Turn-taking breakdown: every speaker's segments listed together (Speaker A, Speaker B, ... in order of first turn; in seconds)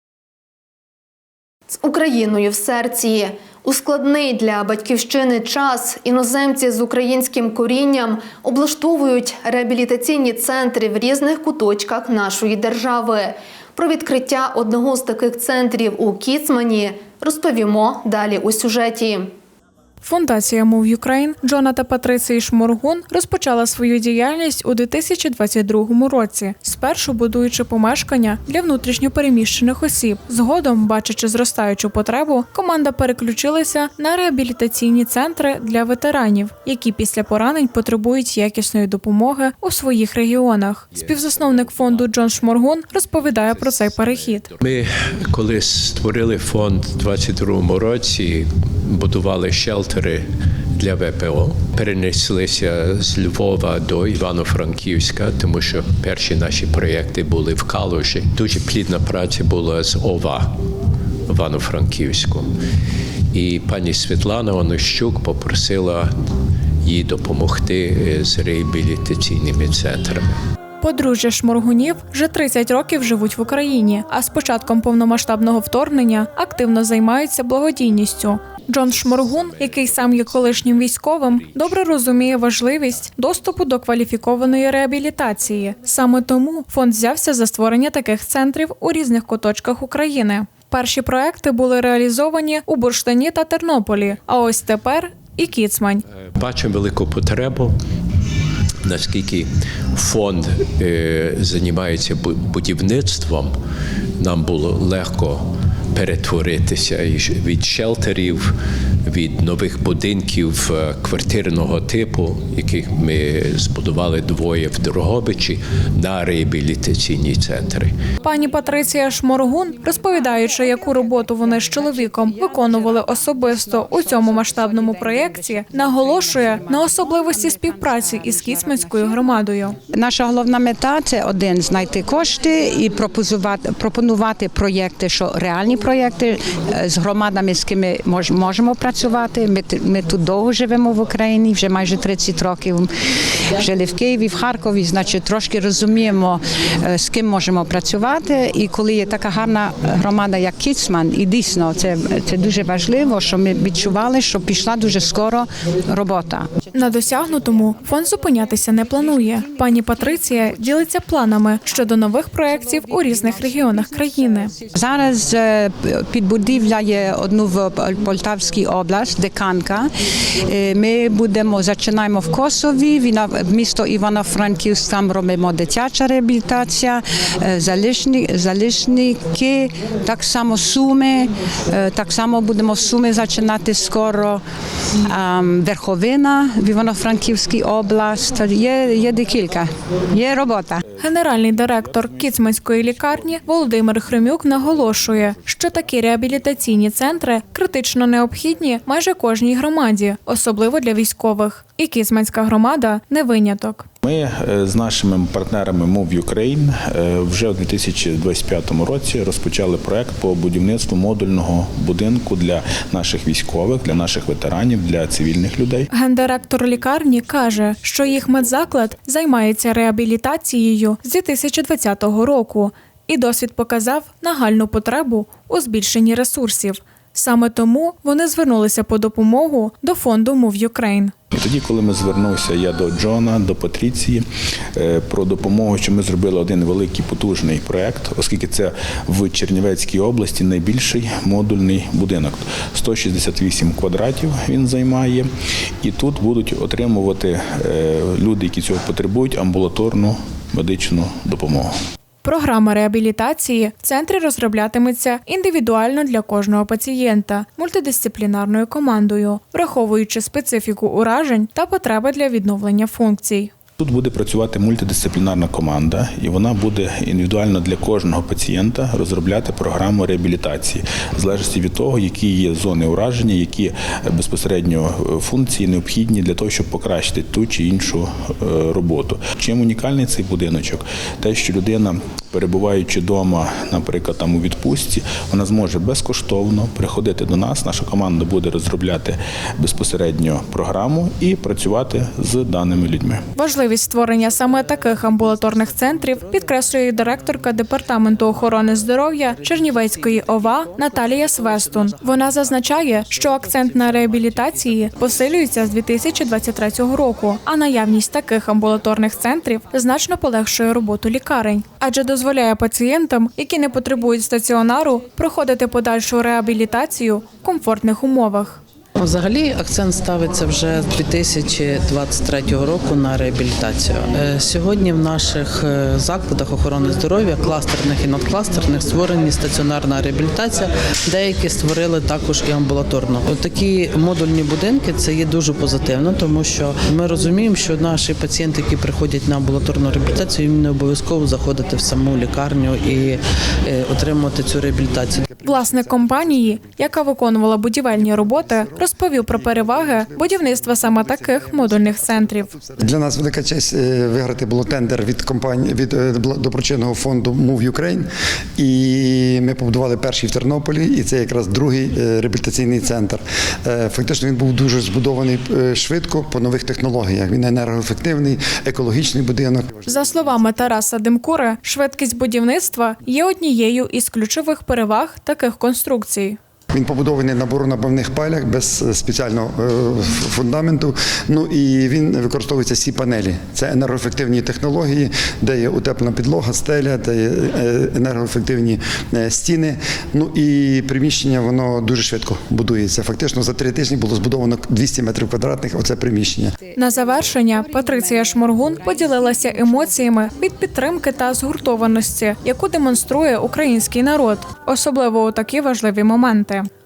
Speaker A: 1.8-19.3
Speaker B: 20.0-44.5, 70.8-96.0, 118.2-129.8, 156.7-164.5, 191.0-203.9, 215.9-231.1, 252.2-263.5, 293.4-318.6, 345.4-352.5, 369.9-376.4, 396.8-406.7
Speaker C: 41.0-42.4, 43.1-50.2, 50.8-60.5, 61.3-62.5, 63.3-66.1, 66.8-70.3, 79.1-80.7, 96.4-97.8, 98.8-103.5, 104.2-108.5, 109.0-117.9
Speaker D: 119.9-129.4, 129.9-142.9, 143.6-156.7, 159.1-160.6, 161.7-169.9, 170.4-184.4, 185.1-190.8
Speaker E: 191.7-193.6, 194.3-195.4, 204.0-215.9, 231.3-234.2, 234.8-245.3, 245.8-251.7, 263.8-293.2
Speaker F: 294.1-305.4, 319.0-345.2
Speaker G: 345.2-347.1, 347.9-370.8, 376.7-396.6